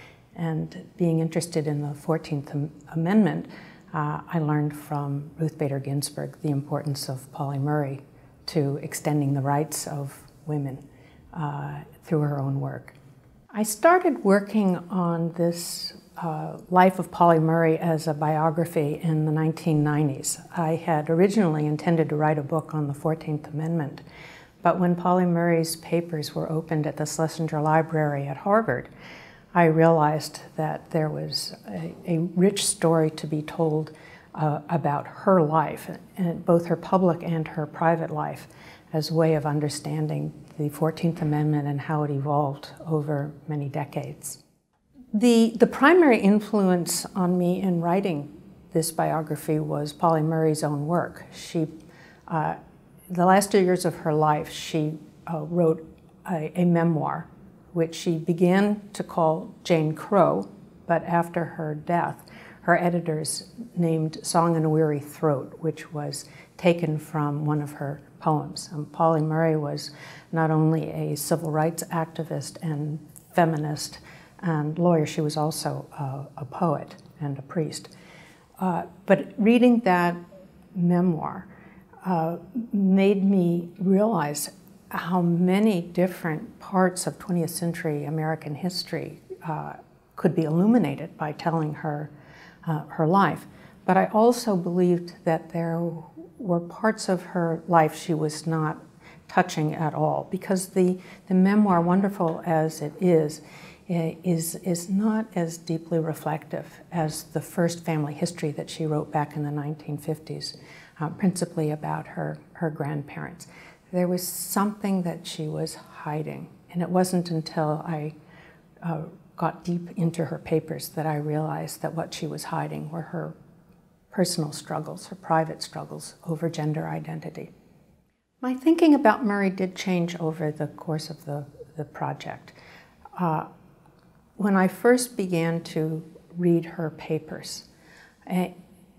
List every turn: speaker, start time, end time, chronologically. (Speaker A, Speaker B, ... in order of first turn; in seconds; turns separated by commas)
Speaker A: 0.3-10.8, Speaker A: 11.3-12.9, Speaker A: 13.5-24.0, Speaker A: 24.6-28.9, Speaker A: 29.5-44.4, Speaker A: 45.1-51.8, Speaker A: 52.3-52.6, Speaker A: 53.1-77.9, Speaker A: 78.6-80.2, Speaker A: 80.7-81.5, Speaker A: 82.0-92.1, Speaker A: 92.6-118.1, Speaker A: 118.8-123.3, Speaker A: 124.1-127.5, Speaker A: 128.4-132.6, Speaker A: 133.2-133.5, Speaker A: 134.4-137.7, Speaker A: 138.3-138.5